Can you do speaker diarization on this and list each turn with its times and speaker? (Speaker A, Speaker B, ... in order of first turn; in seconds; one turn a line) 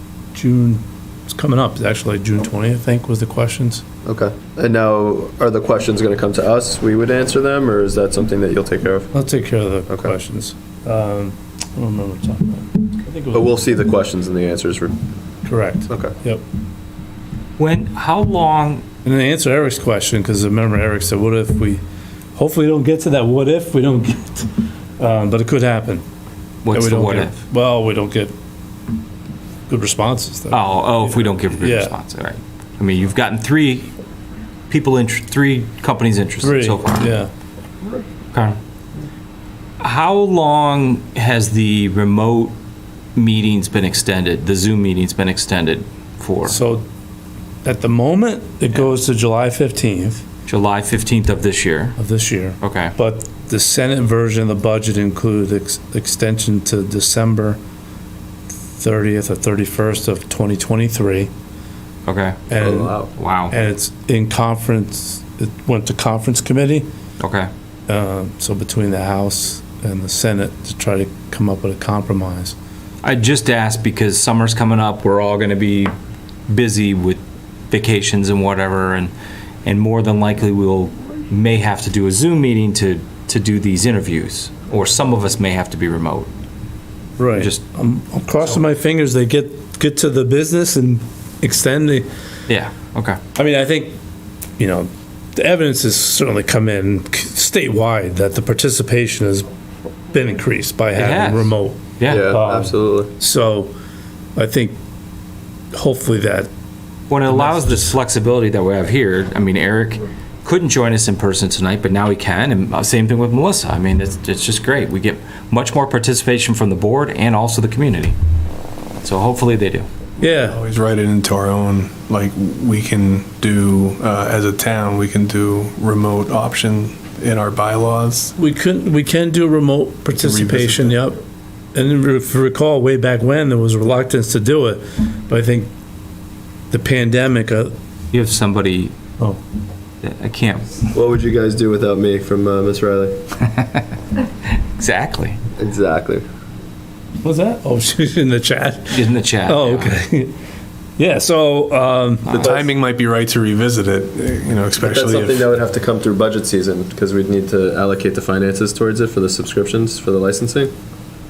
Speaker A: 0.3-3.8
Speaker B: 4.0-9.1
Speaker A: 9.1-13.6
Speaker B: 13.3-15.0
Speaker A: 15.4-16.4
Speaker B: 15.9-16.1
Speaker C: 17.6-18.9
Speaker A: 19.0-21.8
Speaker A: 22.4-26.0
Speaker C: 26.6-27.4
Speaker A: 26.7-28.3
Speaker A: 29.7-31.9
Speaker C: 30.5-33.9
Speaker C: 34.7-37.1
Speaker A: 36.4-37.3
Speaker C: 38.3-38.6
Speaker C: 39.8-42.6
Speaker C: 43.2-46.6
Speaker A: 46.5-46.9
Speaker A: 47.6-50.2
Speaker C: 50.5-52.0
Speaker A: 52.0-57.6
Speaker C: 52.6-52.9
Speaker A: 58.8-61.3
Speaker C: 62.1-62.5
Speaker A: 62.5-66.9
Speaker B: 62.6-63.1
Speaker C: 63.1-63.5
Speaker C: 67.2-67.5
Speaker A: 67.9-72.5
Speaker C: 73.0-75.9
Speaker C: 76.5-79.1
Speaker C: 79.7-86.3
Speaker A: 87.2-92.1
Speaker C: 87.3-87.6
Speaker C: 92.5-93.2
Speaker A: 93.3-94.0
Speaker A: 94.6-99.5
Speaker A: 100.1-103.7
Speaker C: 100.9-102.3
Speaker B: 102.1-103.1
Speaker A: 104.4-104.8
Speaker A: 105.7-106.5
Speaker C: 107.1-118.2
Speaker A: 107.3-108.0
Speaker C: 119.0-119.9
Speaker A: 120.2-120.6
Speaker D: 120.4-128.3
Speaker A: 128.4-131.2
Speaker D: 130.1-131.0
Speaker A: 131.7-135.7
Speaker A: 136.7-137.7
Speaker C: 138.1-138.9
Speaker C: 140.0-140.9
Speaker B: 140.9-143.2
Speaker C: 144.8-145.4
Speaker B: 145.6-146.2
Speaker A: 147.2-150.3
Speaker C: 148.9-149.9
Speaker A: 151.0-152.3
Speaker C: 152.3-152.5
Speaker D: 152.3-155.5
Speaker B: 152.4-152.7
Speaker B: 154.8-160.7